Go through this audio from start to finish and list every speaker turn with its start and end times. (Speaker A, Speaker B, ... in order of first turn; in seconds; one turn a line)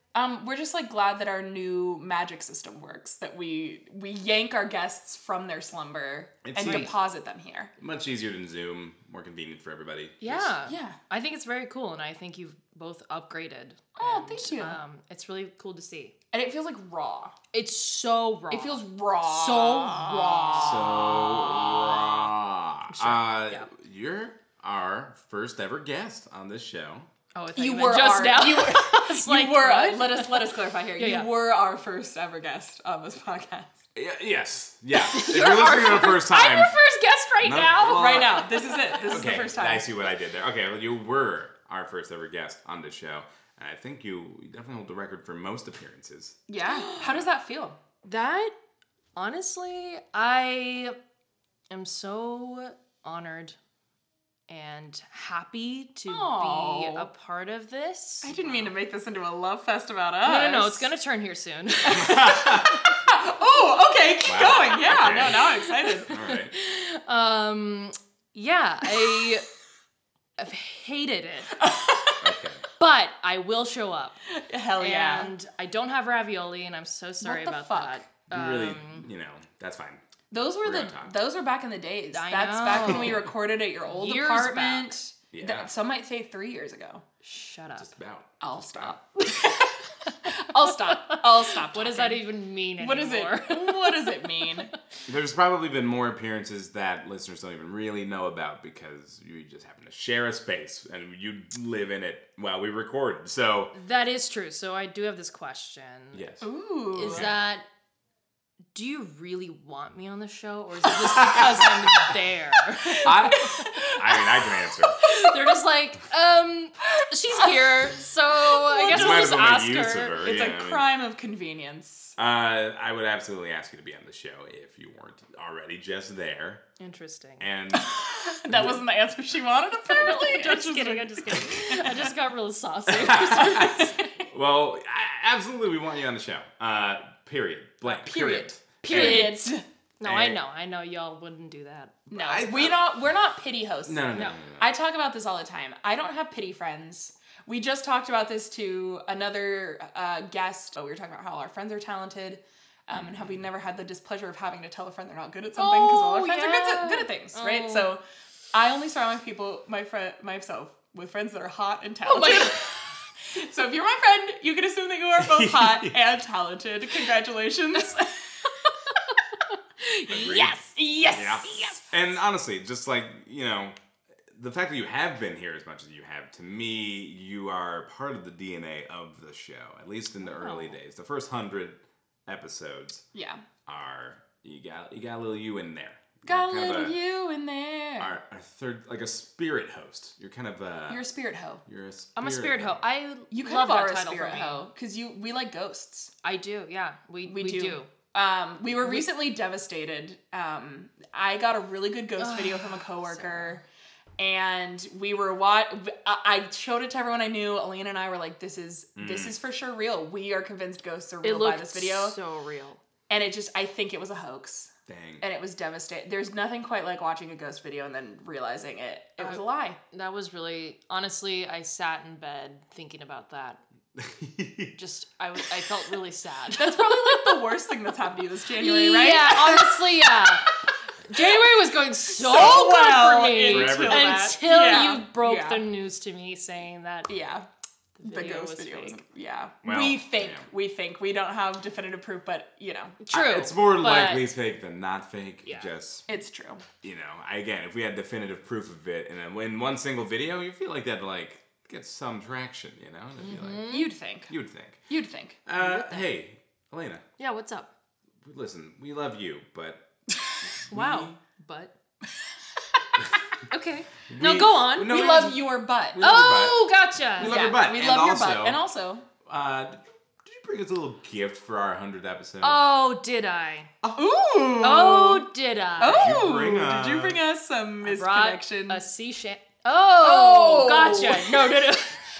Speaker A: 0.1-7.7
Speaker B: 6.4-7.0
Speaker C: 6.6-6.9
Speaker B: 7.8-10.5
Speaker C: 10.2-16.1
Speaker A: 10.7-11.0
Speaker A: 14.0-14.8
Speaker A: 16.3-17.3
Speaker C: 17.5-21.0
Speaker A: 18.5-21.3
Speaker B: 20.6-27.1
Speaker C: 22.9-23.7
Speaker C: 27.3-31.3
Speaker A: 27.5-33.7
Speaker B: 34.0-36.7
Speaker C: 35.1-39.1
Speaker B: 37.4-38.5
Speaker A: 37.8-39.9
Speaker B: 39.1-46.4
Speaker A: 46.5-47.8
Speaker B: 47.0-47.2
Speaker C: 48.0-48.5
Speaker C: 49.1-50.9
Speaker C: 51.7-53.5
Speaker C: 54.5-58.3
Speaker A: 56.1-57.1
Speaker A: 58.2-60.9
Speaker B: 58.2-58.7
Speaker C: 60.2-62.1
Speaker A: 61.8-66.1
Speaker B: 61.9-62.9
Speaker B: 64.2-65.4
Speaker B: 66.1-66.5
Speaker C: 66.1-69.5
Speaker C: 70.4-71.5
Speaker A: 71.6-72.2
Speaker B: 72.2-72.6
Speaker C: 72.8-74.2
Speaker A: 74.3-75.3
Speaker C: 74.8-79.1
Speaker A: 77.2-78.0
Speaker B: 78.3-80.0
Speaker A: 80.3-87.0
Speaker B: 80.6-81.1
Speaker C: 82.1-83.3
Speaker C: 83.8-84.9
Speaker B: 85.3-85.7
Speaker C: 87.2-87.9
Speaker B: 87.8-89.0
Speaker A: 88.4-92.3
Speaker C: 91.1-94.2
Speaker A: 92.8-94.7
Speaker B: 95.1-103.7
Speaker C: 103.7-106.2
Speaker B: 106.1-107.4
Speaker A: 106.4-107.3
Speaker C: 107.0-107.6
Speaker C: 108.7-113.7
Speaker B: 111.1-112.1
Speaker B: 113.0-115.0
Speaker C: 115.0-120.2
Speaker A: 117.4-119.4
Speaker B: 118.9-120.9
Speaker A: 120.2-122.1
Speaker B: 122.2-126.6
Speaker C: 126.8-127.5
Speaker B: 127.4-127.9
Speaker A: 127.7-131.8
Speaker B: 128.5-128.8
Speaker C: 129.9-134.0
Speaker B: 132.9-139.3
Speaker A: 133.7-134.0
Speaker A: 137.8-139.6
Speaker C: 138.8-142.4
Speaker B: 140.0-140.4
Speaker A: 142.1-158.0
Speaker B: 142.1-142.8
Speaker B: 143.8-144.7
Speaker B: 152.9-153.3
Speaker C: 155.6-157.9
Speaker A: 158.5-168.4
Speaker C: 162.1-162.6
Speaker B: 165.2-166.0
Speaker A: 169.8-171.8
Speaker B: 170.1-170.6
Speaker B: 171.1-173.8
Speaker B: 174.3-183.1
Speaker C: 180.2-180.8
Speaker A: 183.1-183.4
Speaker B: 183.7-187.0
Speaker A: 186.2-188.1
Speaker B: 188.0-191.1
Speaker A: 190.9-191.6
Speaker B: 191.7-192.8
Speaker C: 192.2-194.7
Speaker A: 193.3-196.1
Speaker C: 196.2-197.9
Speaker A: 197.2-203.6
Speaker C: 198.8-199.1
Speaker C: 202.2-203.6
Speaker A: 204.2-212.1
Speaker B: 208.9-209.4
Speaker C: 211.2-212.8
Speaker A: 213.1-219.8
Speaker B: 214.9-215.2
Speaker C: 219.2-223.6
Speaker B: 223.9-224.8
Speaker C: 224.8-227.5
Speaker A: 226.5-229.8
Speaker C: 228.6-230.5
Speaker C: 231.1-237.1
Speaker A: 232.1-235.6
Speaker B: 232.3-232.6
Speaker B: 233.5-234.3
Speaker A: 237.1-237.5
Speaker C: 238.0-239.0
Speaker A: 238.0-243.3
Speaker B: 239.6-240.5
Speaker C: 243.0-244.3
Speaker B: 243.1-246.0
Speaker C: 245.4-245.7
Speaker A: 246.1-246.6
Speaker B: 246.8-253.7
Speaker C: 253.2-253.9
Speaker A: 253.7-254.3
Speaker B: 254.3-254.8
Speaker A: 254.9-255.4
Speaker B: 255.4-257.0
Speaker C: 255.6-256.1
Speaker C: 257.2-257.7
Speaker B: 258.2-259.8
Speaker B: 260.4-261.2
Speaker C: 260.7-261.7
Speaker C: 263.5-265.2
Speaker B: 264.1-268.6
Speaker A: 264.9-266.0
Speaker C: 266.0-267.6
Speaker A: 267.2-269.0
Speaker B: 269.2-272.6
Speaker C: 272.4-273.7
Speaker B: 273.8-274.1
Speaker A: 273.9-275.2
Speaker C: 274.6-276.4
Speaker A: 275.8-278.8
Speaker B: 275.8-277.2
Speaker C: 277.8-282.0
Speaker A: 280.0-281.7